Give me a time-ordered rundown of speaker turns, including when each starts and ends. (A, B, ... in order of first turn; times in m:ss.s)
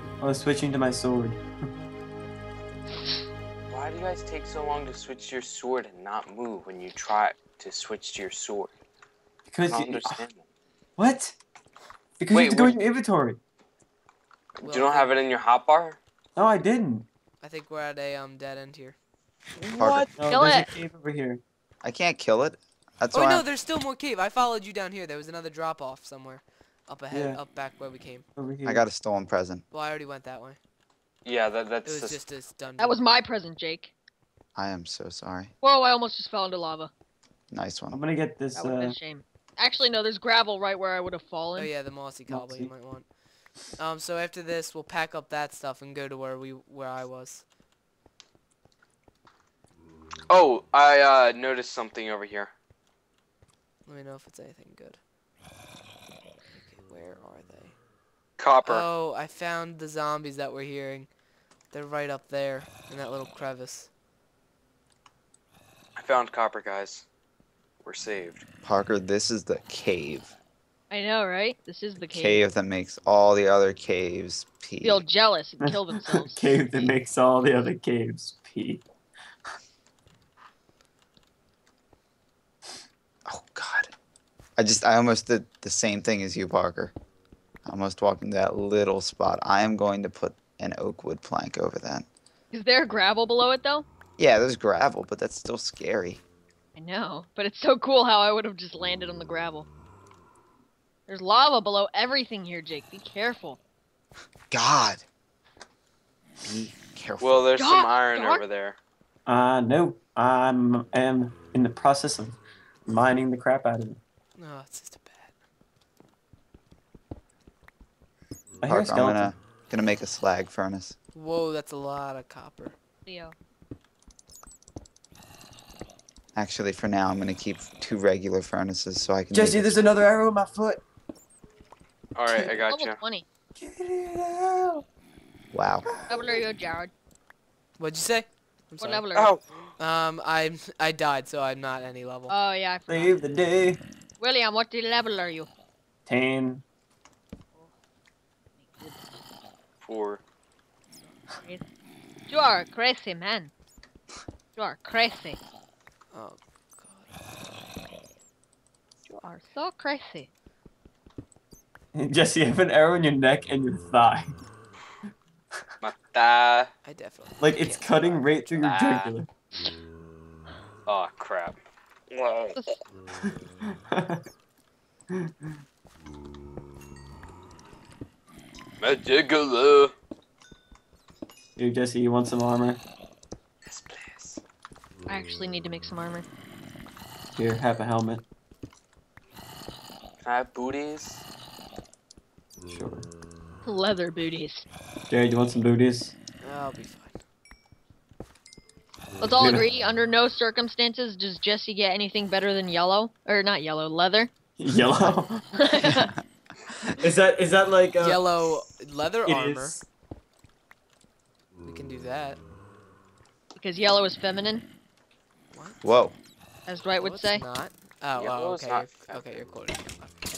0:00.2-0:01.4 A
0:03.7-0:08.7 B
0:09.5-0:10.2 A
0:09.7-0:10.4 B
0:11.0-0:11.4 A
0:12.2-0:13.4 A
0:12.3-0:12.8 B
0:14.6-0:16.0 B
0:14.6-0:15.2 C
0:16.4-0:17.1 A
0:17.4-0:19.0 C
0:19.6-0:21.4 A
0:19.8-0:20.1 D
0:20.3-0:20.7 E
0:21.8-0:23.4 D
0:23.1-0:28.2 C
0:27.1-0:27.4 A
0:28.4-0:28.8 A
0:28.6-0:29.6 D
0:29.7-0:30.6 C
0:31.2-0:32.2 B
0:31.8-0:33.0 C
0:32.8-0:33.9 E
0:34.6-0:35.5 D
0:35.6-0:36.9 E
0:37.5-0:38.0 D
0:37.9-0:39.0 A
0:38.5-0:41.7 E
0:41.6-0:43.1 C
0:42.3-0:42.7 A
0:43.6-0:47.4 C
0:50.3-0:52.5 B
0:53.8-0:55.0 C
0:56.5-0:57.8 C
0:58.4-0:58.8 B
0:58.6-1:01.1 C
1:01.7-1:03.9 C
1:06.0-1:07.0 B
1:07.8-1:08.4 B
1:08.6-1:10.3 D
1:10.9-1:12.4 E
1:12.1-1:15.0 D
1:14.8-1:16.5 E
1:15.6-1:18.8 A
1:23.3-1:23.9 D
1:24.6-1:26.9 D
1:27.6-1:32.0 D
1:32.5-1:33.8 E
1:34.2-1:36.2 D
1:36.8-1:39.7 E
1:41.1-1:43.6 E
1:44.5-1:45.0 D
1:46.4-1:47.5 D
1:47.2-1:48.8 B
1:47.6-1:48.4 E
1:49.2-1:54.0 A
1:54.4-1:55.3 C
1:58.6-1:59.3 A
1:58.6-2:01.0 D
2:01.1-2:02.7 C
2:03.0-2:03.3 E
2:06.3-2:09.9 D
2:09.3-2:10.8 A
2:12.2-2:13.0 B
2:12.3-2:12.6 A
2:12.6-2:13.3 E
2:13.6-2:14.8 A
2:15.5-2:15.9 D
2:15.9-2:16.4 A
2:16.1-2:16.9 E
2:17.8-2:19.1 C
2:18.8-2:19.3 E
2:19.1-2:19.7 B
2:19.8-2:22.3 C
2:22.3-2:23.2 E
2:22.9-2:23.8 A
2:24.2-2:25.5 E
2:26.0-2:26.6 A
2:28.6-2:29.0 E
2:29.8-2:30.2 B
2:32.3-2:33.5 E
2:34.6-2:35.4 E
2:36.1-2:37.1 C
2:39.0-2:40.3 E
2:41.9-2:44.4 A
2:45.8-2:46.7 B
2:46.8-2:48.2 C
2:47.4-2:49.3 A
2:48.6-2:49.1 B
2:50.9-2:51.6 B
2:52.1-2:52.6 B
2:53.2-2:54.2 A
2:55.1-2:55.5 A
2:58.8-2:59.9 B
3:01.6-3:02.8 A
3:03.6-3:04.4 B
3:05.1-3:06.2 E
3:07.3-3:08.2 A
3:10.2-3:11.2 B
3:12.7-3:13.1 A
3:13.6-3:14.6 E
3:15.1-3:16.1 A
3:16.4-3:17.2 C
3:19.2-3:24.3 E
3:19.4-3:19.7 A
3:24.6-3:25.5 A
3:25.5-3:26.1 E
3:27.0-3:28.3 A
3:28.0-3:29.8 C
3:29.2-3:29.8 A
3:31.6-3:32.4 C
3:33.6-3:34.6 E
3:35.5-3:36.0 C
3:35.8-3:36.1 D
3:36.7-3:37.4 E
3:37.0-3:40.2 C
3:38.1-3:39.4 B